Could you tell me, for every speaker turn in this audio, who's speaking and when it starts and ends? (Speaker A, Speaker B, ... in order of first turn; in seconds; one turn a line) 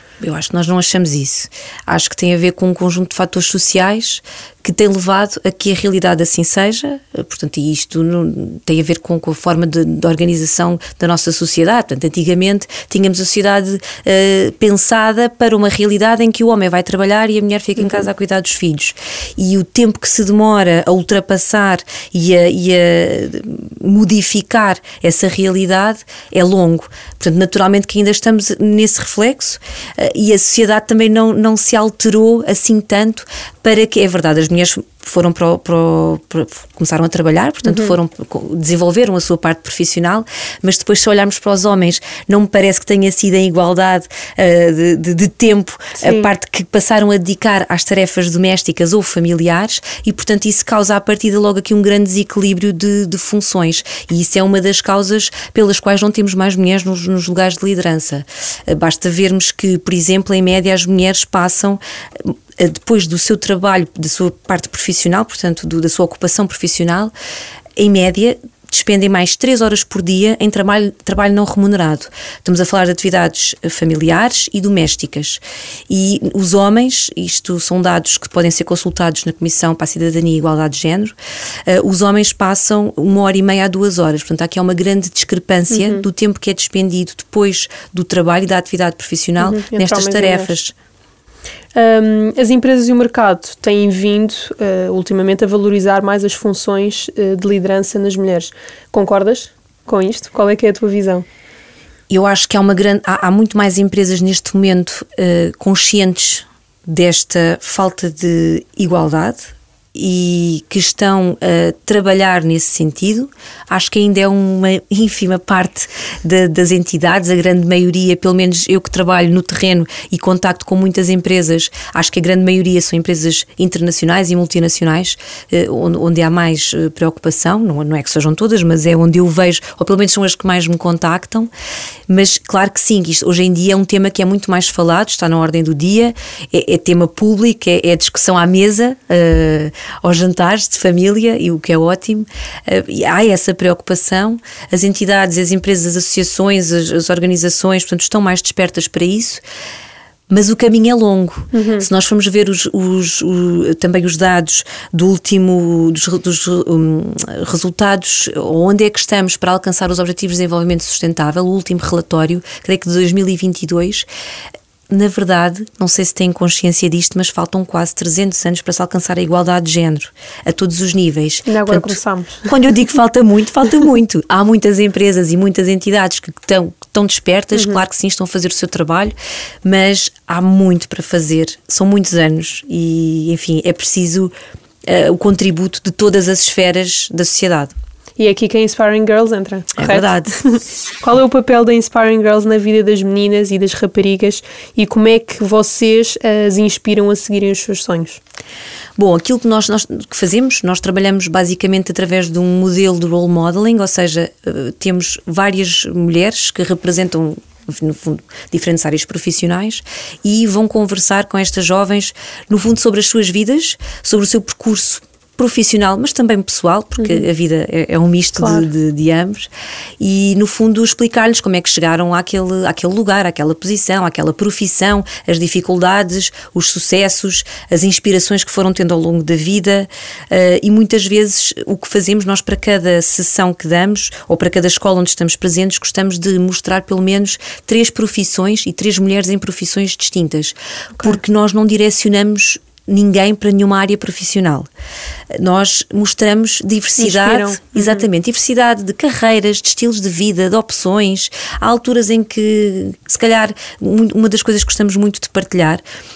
Speaker A: 0.2-67.1
Speaker B: 17.8-18.0
Speaker B: 37.6-38.0
Speaker B: 46.0-46.3
Speaker A: 67.8-81.1
Speaker A: 81.7-90.7
Speaker B: 85.7-86.0
Speaker B: 89.4-90.6
Speaker B: 91.7-101.2
Speaker A: 102.1-131.5
Speaker A: 132.1-149.4
Speaker A: 150.3-164.1
Speaker B: 151.5-151.9
Speaker A: 164.9-184.3
Speaker B: 171.4-172.5
Speaker B: 177.5-177.8
Speaker A: 184.9-187.7
Speaker B: 188.2-198.2
Speaker A: 189.8-190.3
Speaker A: 199.0-244.7
Speaker B: 217.0-217.3
Speaker B: 218.3-218.7
Speaker A: 245.4-255.8
Speaker B: 247.0-248.1